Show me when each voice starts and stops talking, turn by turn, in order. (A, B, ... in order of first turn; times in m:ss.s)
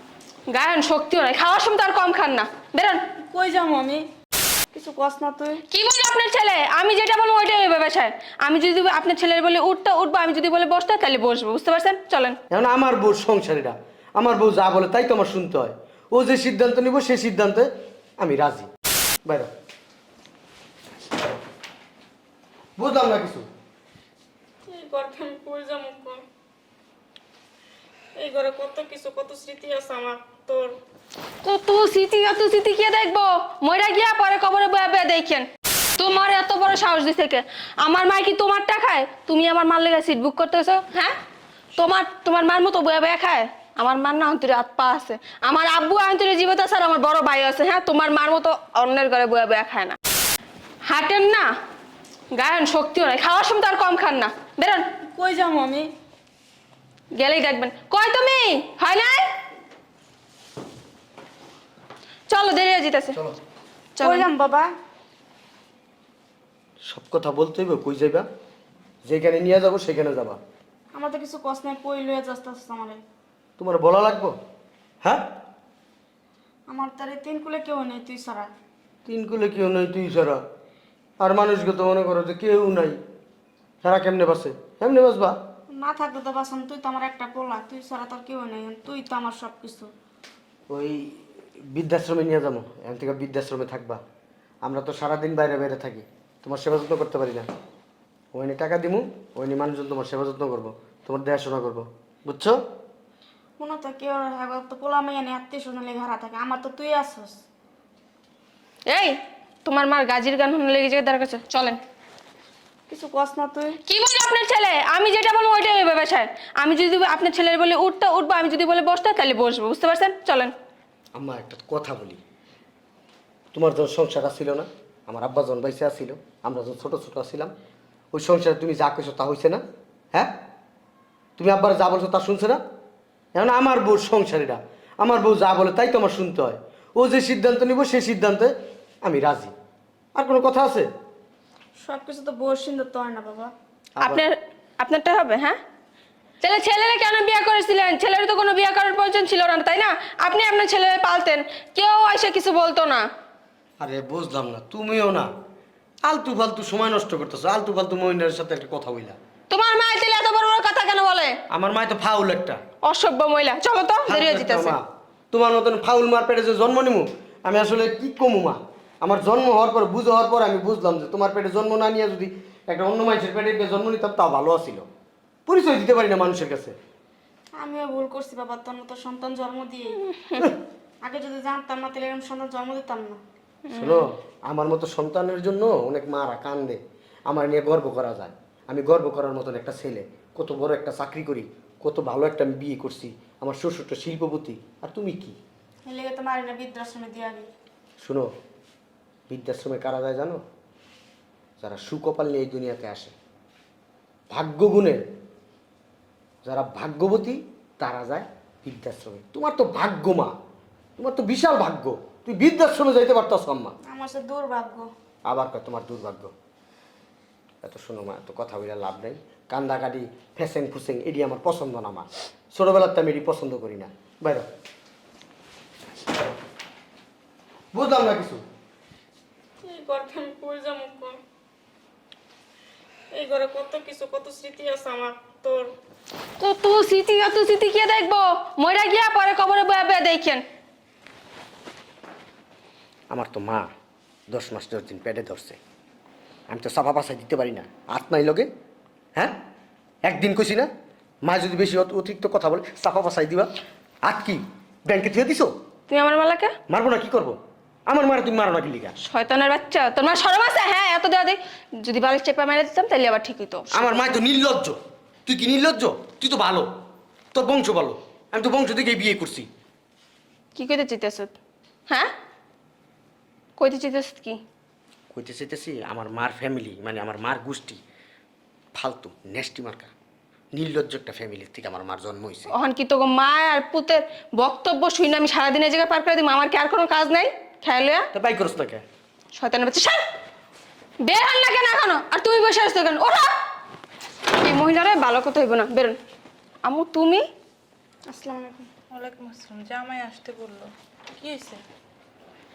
0:00.5-0:03.0 A
0:03.2-0:04.0 B
0:04.7-0:05.6 B
0:05.7-0:12.4 A
0:12.5-0:17.7 C
0:18.2-0:18.7 C
0:19.3-0:19.5 C
0:22.8-0:23.5 C
0:24.7-0:26.2 B
0:28.2-0:30.8 B
0:31.4-0:41.2 A
0:41.8-0:50.0 A
0:50.8-0:51.5 A
0:52.3-0:54.8 A
0:55.1-0:55.9 B
0:57.2-0:59.3 A
1:02.3-1:03.2 A
1:04.0-1:04.3 A
1:04.0-1:04.7 B
1:06.9-1:08.3 C
1:09.0-1:10.4 C
1:10.9-1:13.0 B
1:13.6-1:14.4 C
1:16.7-1:18.5 B
1:19.1-1:20.4 C
1:21.2-1:23.0 C
1:23.8-1:25.4 C
1:25.7-1:29.9 B
1:30.7-1:31.1 C
1:31.7-1:34.0 C
1:34.6-1:37.5 C
1:38.3-1:42.6 C
1:43.6-1:47.4 B
1:48.9-1:51.8 A
1:52.9-1:53.8 B
1:53.9-2:00.5 A
2:01.2-2:02.2 C
2:03.5-2:07.5 C
2:08.1-2:09.6 C
2:11.4-2:12.6 C
2:13.4-2:18.5 C
2:19.0-2:19.5 C
2:20.2-2:20.9 C
2:21.8-2:23.5 B
2:24.0-2:24.3 C
2:24.0-2:25.6 A
2:26.4-2:33.0 A
2:33.8-2:35.3 C
2:36.0-2:39.2 C
2:39.5-2:41.4 A
2:41.5-2:42.6 C
2:42.8-2:44.8 A
2:44.1-2:54.8 C
2:55.5-2:56.8 C
2:57.6-3:00.5 B
3:01.0-3:03.2 B
3:03.7-3:04.1 A
3:03.7-3:15.4 C
3:15.9-3:17.5 B
3:18.0-3:18.3 C
3:19.3-3:20.4 C
3:21.6-3:23.1 C
3:24.3-3:25.0 C
3:26.4-3:30.3 C
3:31.0-3:33.8 C
3:33.9-3:34.9 B
3:35.3-3:36.3 C
3:37.6-3:44.5 C
3:47.7-3:48.4 C
3:49.6-3:51.2 B
3:53.1-3:55.7 B
3:56.4-4:00.4 A
4:03.1-4:03.7 C
4:04.3-4:05.6 C
4:06.5-4:08.5 C
4:10.1-4:10.7 C
4:11.2-4:13.5 C
4:14.0-4:15.5 C
4:15.9-4:16.5 A
4:16.7-4:19.0 C
4:19.0-4:24.0 A
4:23.7-4:26.7 C
4:27.3-4:29.5 C
4:30.6-4:31.4 A
4:33.6-4:34.4 A
4:35.1-4:37.8 C
4:38.8-4:39.9 C
4:40.5-4:42.5 C
4:42.5-4:48.0 A
4:48.1-4:48.8 C
4:49.4-4:50.0 A
4:51.0-4:53.4 A
4:54.3-4:56.0 A
4:56.6-4:57.3 A
4:58.1-4:58.7 B
4:58.9-5:01.6 D